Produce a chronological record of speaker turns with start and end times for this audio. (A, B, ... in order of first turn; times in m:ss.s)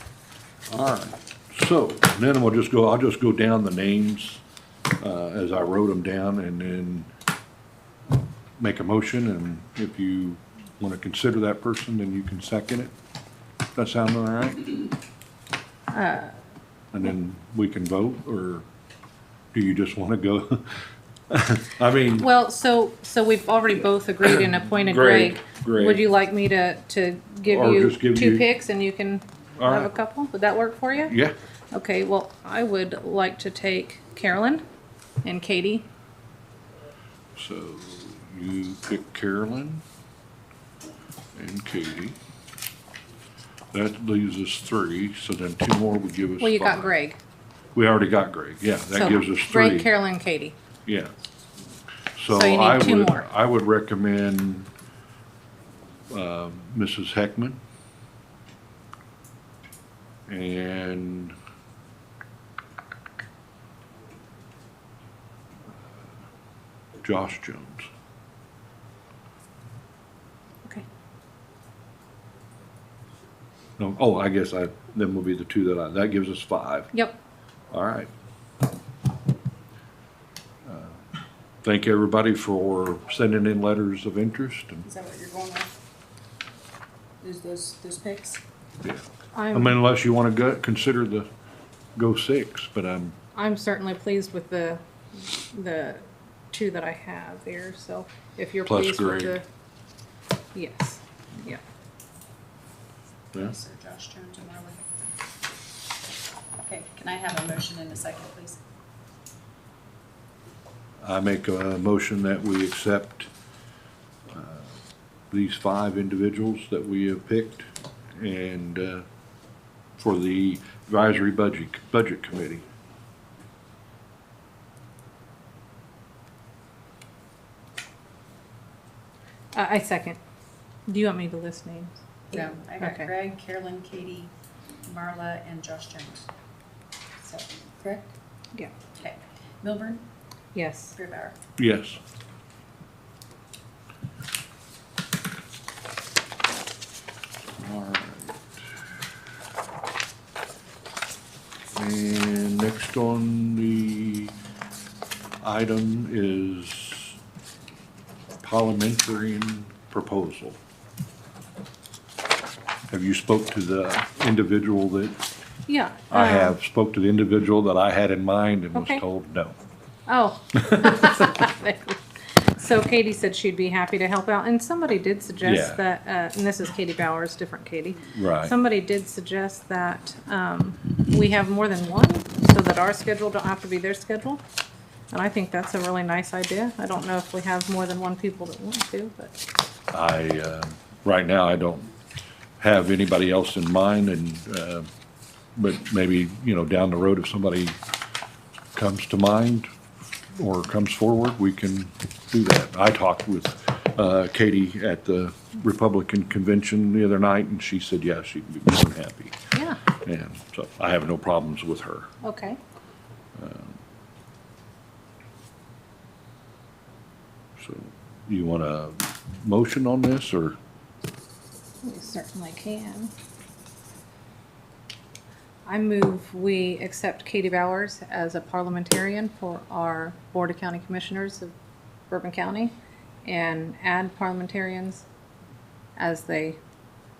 0:00.7-0:04.4 A
0:05.0-0:07.1 A
0:08.6-0:12.9 A
0:13.7-0:14.9 A
0:15.9-0:16.4 B
0:16.9-0:18.6 A
0:19.5-0:22.3 A
0:22.2-0:31.1 B
0:24.2-0:26.0 A
0:27.5-0:28.4 A
0:29.6-0:29.9 A
0:31.1-0:31.3 A
0:31.7-0:34.6 B
0:35.2-0:35.9 B
0:37.4-0:39.8 A
0:41.3-0:42.2 A
0:43.7-0:46.9 A
0:46.4-0:47.2 B
0:47.7-0:49.9 A
0:48.9-0:50.5 B
0:50.8-0:51.1 A
0:52.2-0:54.7 A
0:52.3-0:53.3 B
0:56.1-0:57.6 A
1:00.3-1:01.4 A
1:07.0-1:07.9 A
1:13.8-1:16.9 A
1:17.7-1:18.1 A
1:20.6-1:21.0 A
1:21.6-1:24.8 A
1:24.8-1:25.7 C
1:27.2-1:28.4 C
1:28.8-1:31.3 A
1:29.3-1:29.8 B
1:32.0-1:33.1 A
1:33.3-1:39.4 B
1:38.6-1:39.4 A
1:40.5-1:41.6 B
1:43.3-1:45.2 C
1:46.6-1:48.6 C
1:51.0-1:53.3 A
1:54.3-1:54.7 A
1:55.3-1:59.0 A
2:00.0-2:02.6 A
2:09.5-2:10.2 B
2:10.9-2:13.1 B
2:12.3-2:14.3 C
2:14.8-2:16.3 C
2:17.2-2:18.1 C
2:18.9-2:20.0 C
2:20.5-2:20.9 B
2:20.9-2:21.4 C
2:21.6-2:22.0 A
2:27.5-2:28.6 A
2:31.7-2:34.3 A
2:35.4-2:37.2 A
2:38.4-2:40.6 A
2:42.9-2:45.2 A
2:45.7-2:46.6 B
2:46.1-2:49.6 A
2:48.7-2:49.0 B
2:50.1-3:04.4 B
2:55.4-2:55.8 A
2:58.1-2:58.5 A
3:05.1-3:09.4 B
3:09.9-3:11.9 A
3:12.6-3:14.8 A
3:15.6-3:17.8 A
3:18.7-3:19.7 A
3:20.4-3:29.4 A
3:29.5-3:29.8 B
3:30.0-3:32.1 A
3:32.2-3:32.6 B
3:33.4-3:33.8 A
3:37.6-3:40.6 A
3:41.8-3:43.1 B
3:45.7-3:51.5 B
3:52.1-3:55.0 B
3:56.0-3:56.6 B